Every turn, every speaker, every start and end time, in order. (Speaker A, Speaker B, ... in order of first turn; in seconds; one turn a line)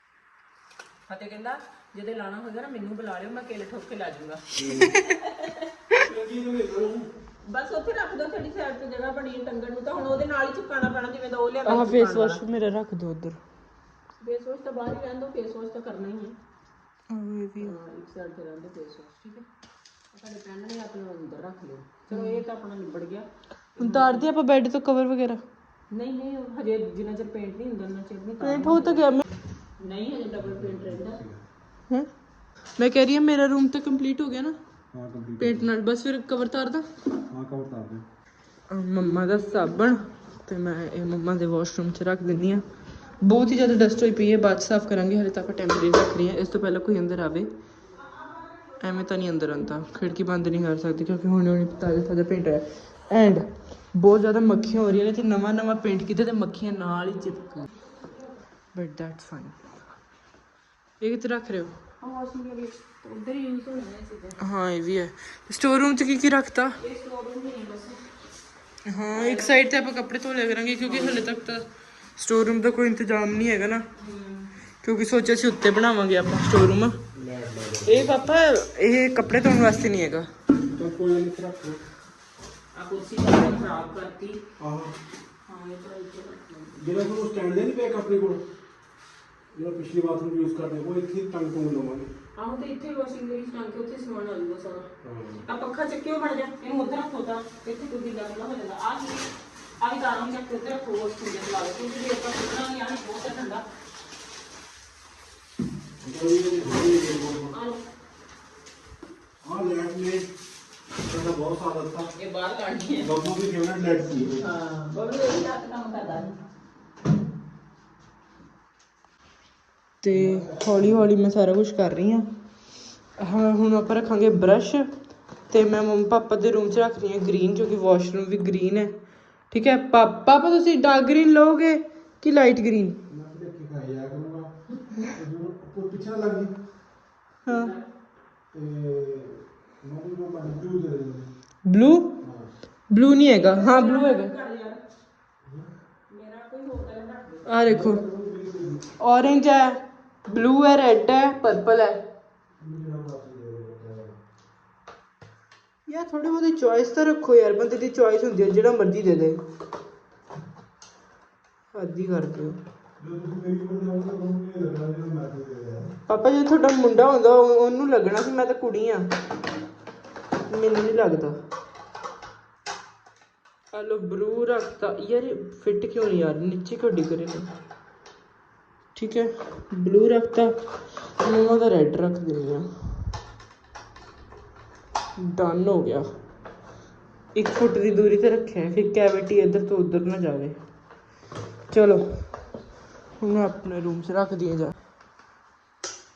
Speaker A: 1.1-4.4
Speaker B: 4.6-5.0
Speaker A: 5.0-5.6
Speaker B: 5.9-7.1
Speaker A: 7.5-12.4
Speaker C: 11.7-13.4
Speaker A: 14.2-16.4
Speaker C: 17.1-17.7
Speaker A: 17.6-19.4
Speaker A: 20.1-24.3
Speaker C: 22.1-22.4
Speaker C: 23.8-25.4
Speaker A: 25.9-29.1
Speaker C: 28.4-29.2
Speaker A: 29.8-31.2
Speaker B: 30.4-31.4
Speaker C: 32.8-34.6
Speaker B: 34.9-35.7
Speaker C: 35.4-36.9
Speaker B: 37.3-38.0
Speaker C: 38.7-42.6
Speaker C: 43.2-47.5
Speaker C: 48.8-57.7
Speaker C: 58.7-59.6
Speaker C: 61.0-61.8
Speaker A: 62.0-64.4
Speaker C: 64.4-66.8
Speaker A: 66.8-68.1
Speaker C: 68.9-71.7
Speaker A: 69.1-69.7
Speaker A: 70.8-71.3
Speaker C: 72.2-73.9
Speaker A: 74.0-74.5
Speaker C: 74.8-77.0
Speaker B: 77.1-78.2
Speaker C: 77.9-80.3
Speaker B: 80.6-81.8
Speaker A: 82.7-84.4
Speaker B: 84.6-84.9
Speaker A: 85.5-86.8
Speaker B: 86.8-88.4
Speaker B: 89.5-92.1
Speaker A: 92.4-94.9
Speaker B: 95.0-95.4
Speaker A: 95.5-99.3
Speaker A: 99.8-103.7
Speaker B: 106.0-107.6
Speaker A: 107.5-107.8
Speaker B: 109.4-110.3
Speaker B: 111.0-112.1
Speaker A: 112.2-113.1
Speaker B: 113.0-114.5
Speaker A: 114.4-116.4
Speaker C: 120.0-122.3
Speaker B: 120.1-121.0
Speaker C: 123.2-129.0
Speaker C: 129.5-133.0
Speaker B: 133.1-136.5
Speaker C: 137.5-137.7
Speaker A: 137.5-137.9
Speaker B: 138.5-141.3
Speaker C: 141.7-142.2
Speaker B: 142.2-142.5
Speaker C: 142.9-144.3
Speaker A: 143.4-144.8
Speaker A: 146.1-147.5
Speaker C: 147.5-148.0
Speaker B: 147.7-148.9
Speaker C: 149.0-152.0
Speaker B: 152.6-154.2
Speaker C: 155.9-159.4
Speaker C: 161.7-162.6
Speaker B: 163.0-165.9
Speaker C: 166.1-169.1
Speaker C: 170.5-171.4
Speaker C: 173.7-177.5
Speaker C: 178.9-180.5
Speaker C: 181.2-183.0
Speaker C: 185.2-186.1
Speaker C: 187.3-190.6
Speaker C: 191.7-192.3
Speaker C: 193.2-194.7